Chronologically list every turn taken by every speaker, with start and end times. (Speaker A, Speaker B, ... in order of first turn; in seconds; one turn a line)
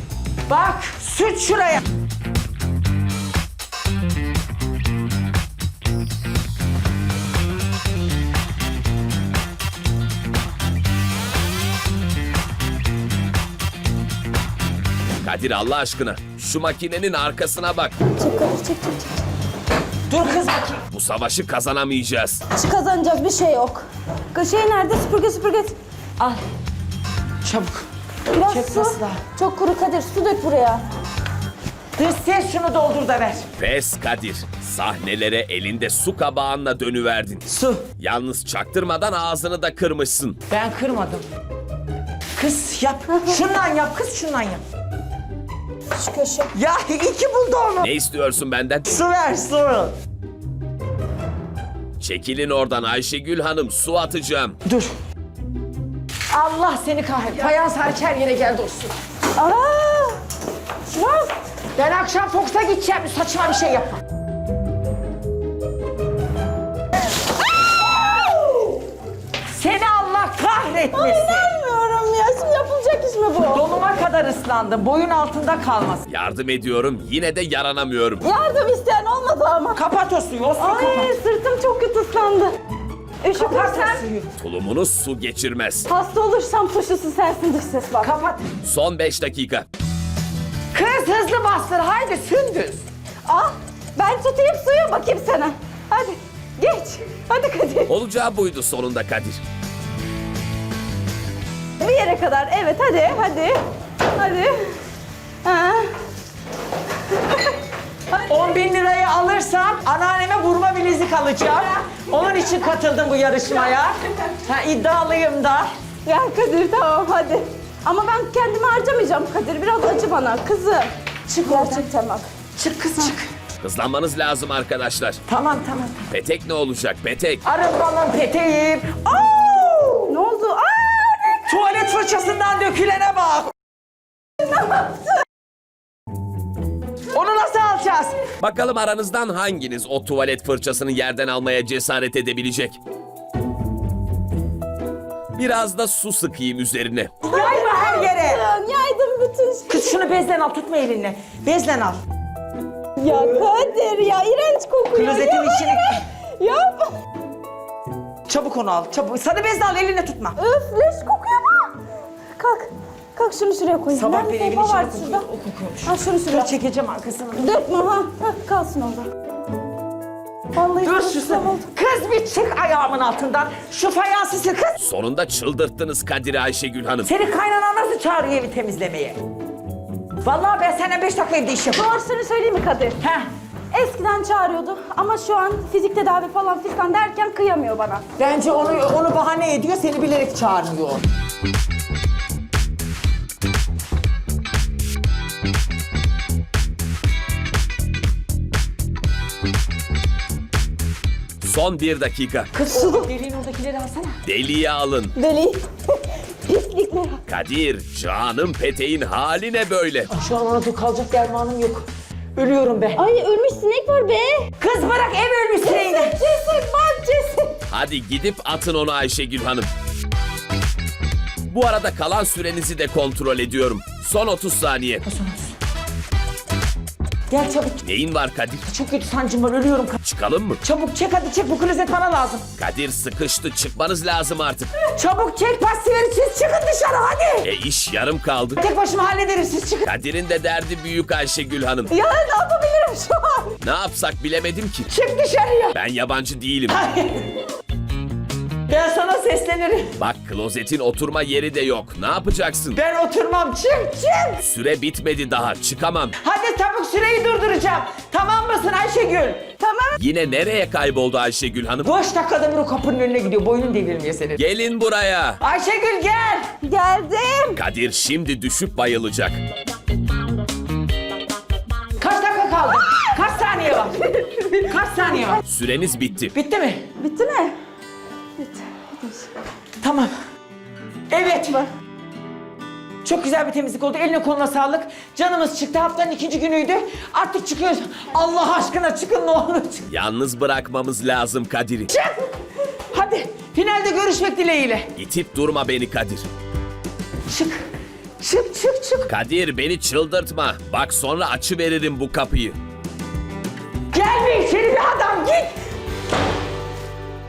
Speaker A: 0.5-1.8
Speaker B: 15.2-18.0
Speaker C: 18.2-19.2
Speaker A: 20.1-20.8
Speaker B: 20.9-22.4
Speaker C: 22.5-25.8
Speaker A: 27.4-27.9
Speaker C: 28.3-30.8
Speaker A: 28.4-29.2
Speaker A: 32.0-33.5
Speaker B: 33.6-37.4
Speaker A: 37.5-37.9
Speaker B: 38.0-40.4
Speaker A: 40.5-41.2
Speaker A: 42.4-44.6
Speaker C: 46.0-46.5
Speaker A: 46.5-47.9
Speaker B: 47.8-48.9
Speaker A: 48.9-49.9
Speaker B: 52.0-54.6
Speaker A: 54.6-54.9
Speaker A: 56.3-58.9
Speaker C: 59.4-60.2
Speaker C: 60.9-61.3
Speaker A: 61.8-64.0
Speaker C: 67.9-68.8
Speaker A: 69.5-71.5
Speaker C: 70.9-73.7
Speaker A: 73.4-76.0
Speaker B: 76.1-78.2
Speaker C: 78.2-79.8
Speaker A: 79.7-81.1
Speaker C: 80.6-82.6
Speaker C: 83.2-84.0
Speaker A: 83.3-84.3
Speaker B: 84.4-85.9
Speaker C: 85.9-88.1
Speaker A: 88.0-88.4
Speaker B: 88.6-89.7
Speaker A: 90.7-92.8
Speaker C: 93.3-97.9
Speaker B: 97.9-99.4
Speaker C: 101.8-103.6
Speaker C: 104.2-104.8
Speaker C: 105.4-105.9
Speaker C: 107.0-107.6
Speaker C: 108.2-108.5
Speaker A: 108.3-115.7
Speaker C: 116.0-122.3
Speaker A: 121.3-121.9
Speaker A: 122.6-123.3
Speaker B: 123.6-125.2
Speaker A: 125.3-126.1
Speaker B: 126.1-127.4
Speaker A: 127.5-130.2
Speaker C: 130.1-131.4
Speaker A: 131.5-133.5
Speaker C: 134.4-135.0
Speaker A: 137.1-138.2
Speaker B: 138.4-142.8
Speaker B: 145.3-147.1
Speaker A: 147.2-148.4
Speaker C: 147.3-150.0
Speaker A: 149.7-152.0
Speaker C: 153.0-156.9
Speaker A: 154.9-156.0
Speaker A: 158.3-160.4
Speaker C: 160.4-161.8
Speaker C: 162.4-165.3
Speaker A: 163.9-167.5
Speaker C: 165.8-166.5
Speaker C: 167.4-169.1
Speaker C: 170.5-171.6
Speaker A: 170.8-174.8
Speaker B: 174.8-177.1
Speaker A: 177.0-179.2
Speaker A: 180.2-182.0
Speaker C: 181.7-183.0
Speaker A: 183.0-183.3
Speaker C: 183.7-188.0
Speaker A: 188.2-191.0
Speaker B: 201.4-202.5
Speaker A: 202.5-204.2
Speaker C: 202.7-203.1
Speaker B: 204.2-205.1
Speaker C: 205.2-207.2
Speaker B: 207.3-210.1
Speaker A: 210.1-213.1
Speaker C: 213.0-214.5
Speaker A: 214.6-216.2
Speaker C: 215.6-217.6
Speaker B: 217.7-219.7
Speaker B: 221.5-225.0
Speaker A: 225.0-225.5
Speaker A: 227.3-227.8
Speaker B: 227.8-228.6
Speaker A: 228.7-230.0
Speaker B: 230.0-230.6
Speaker A: 230.6-232.5
Speaker B: 232.6-234.7
Speaker A: 234.9-237.5
Speaker B: 237.4-238.6
Speaker A: 238.6-239.9
Speaker B: 239.8-241.9
Speaker C: 241.9-243.6
Speaker B: 243.6-244.9
Speaker A: 244.9-245.8
Speaker B: 245.7-246.8
Speaker A: 246.7-247.3
Speaker A: 248.7-249.9
Speaker B: 250.0-252.8
Speaker A: 252.8-254.4
Speaker B: 254.4-256.1
Speaker A: 256.2-259.4
Speaker C: 259.6-260.0
Speaker B: 260.0-261.9
Speaker A: 261.8-264.4
Speaker B: 264.4-265.4
Speaker A: 265.4-266.5
Speaker C: 266.6-267.6
Speaker B: 267.6-269.4
Speaker A: 272.0-274.1
Speaker C: 274.2-274.5
Speaker A: 274.6-275.4
Speaker B: 275.5-276.3
Speaker A: 276.3-276.9
Speaker C: 277.0-277.6
Speaker C: 278.4-279.3
Speaker A: 279.8-280.1
Speaker A: 281.1-281.7
Speaker A: 283.0-289.9
Speaker B: 289.9-291.9
Speaker A: 291.9-292.2
Speaker A: 292.9-294.9
Speaker B: 295.0-296.2
Speaker A: 297.3-297.6
Speaker A: 298.2-299.1
Speaker B: 299.1-302.6
Speaker A: 303.9-305.5